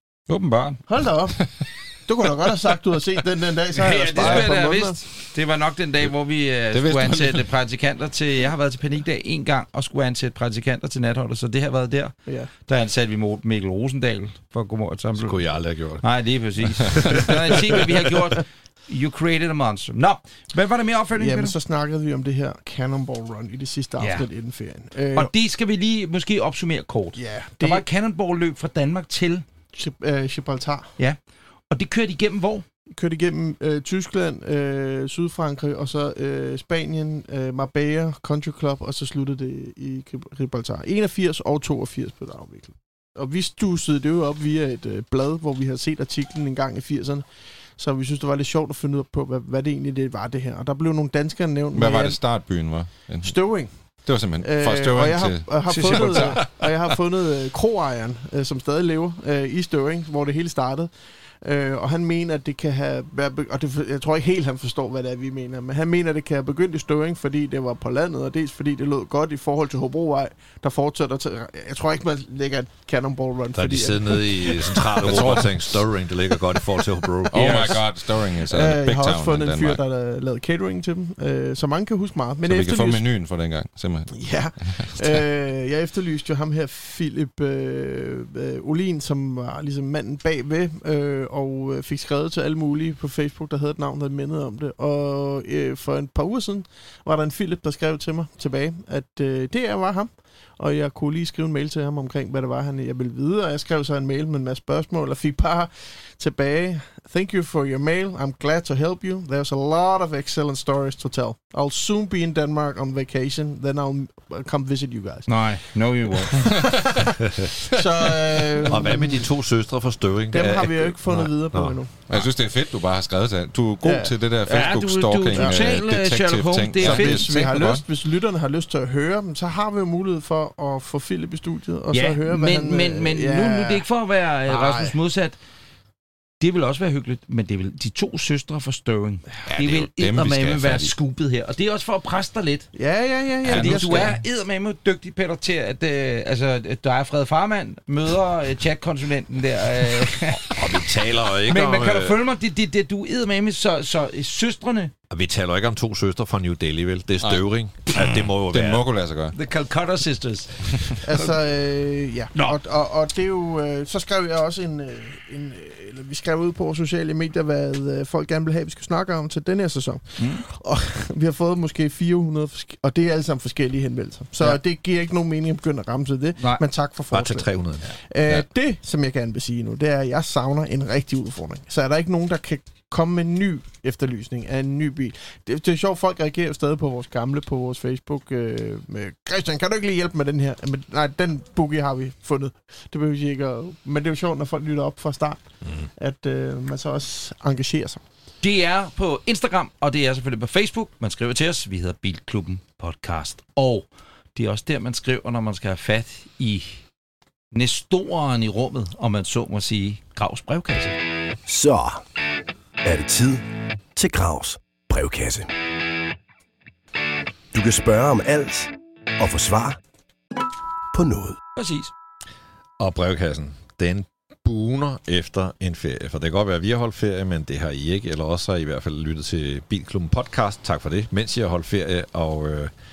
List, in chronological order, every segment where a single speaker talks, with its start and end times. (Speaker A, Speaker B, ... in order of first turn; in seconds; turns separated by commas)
Speaker A: 0.3-0.8, Speaker B: 0.9-5.0, Speaker A: 3.8-21.6, Speaker C: 4.2-4.5, Speaker C: 6.7-7.4, Speaker D: 15.2-17.8, Speaker B: 21.1-25.3, Speaker A: 24.0-24.3, Speaker A: 25.1-29.4, Speaker B: 27.2-27.9, Speaker B: 29.7-30.9, Speaker A: 31.7-32.6, Speaker B: 32.9-47.3, Speaker B: 47.8-52.2, Speaker C: 51.7-56.5, Speaker B: 53.2-53.7, Speaker B: 54.4-75.5, Speaker A: 55.7-56.4, Speaker D: 73.5-77.8, Speaker C: 75.0-75.5, Speaker B: 77.2-83.0, Speaker C: 77.3-79.8, Speaker C: 82.5-85.2, Speaker B: 84.1-119.3, Speaker A: 115.3-116.5, Speaker D: 118.7-121.8, Speaker B: 120.3-122.2, Speaker C: 122.1-127.8, Speaker B: 123.8-124.1, Speaker A: 124.5-127.3, Speaker B: 125.3-125.6, Speaker B: 126.8-133.8, Speaker A: 131.9-135.4, Speaker B: 134.5-135.0, Speaker A: 136.4-142.7, Speaker C: 139.5-140.9, Speaker B: 142.7-144.2, Speaker C: 143.4-144.1, Speaker A: 143.5-150.6, Speaker D: 150.5-152.2, Speaker A: 151.5-154.9, Speaker D: 155.1-158.8, Speaker C: 157.2-159.3, Speaker A: 159.3-161.3, Speaker B: 161.0-198.0, Speaker A: 170.2-170.4, Speaker D: 177.1-177.9, Speaker A: 198.4-206.8, Speaker A: 207.5-211.0, Speaker E: 211.5-212.0, Speaker E: 212.8-215.5, Speaker E: 217.5-219.8, Speaker E: 220.9-221.4, Speaker A: 221.6-221.9, Speaker D: 222.8-232.7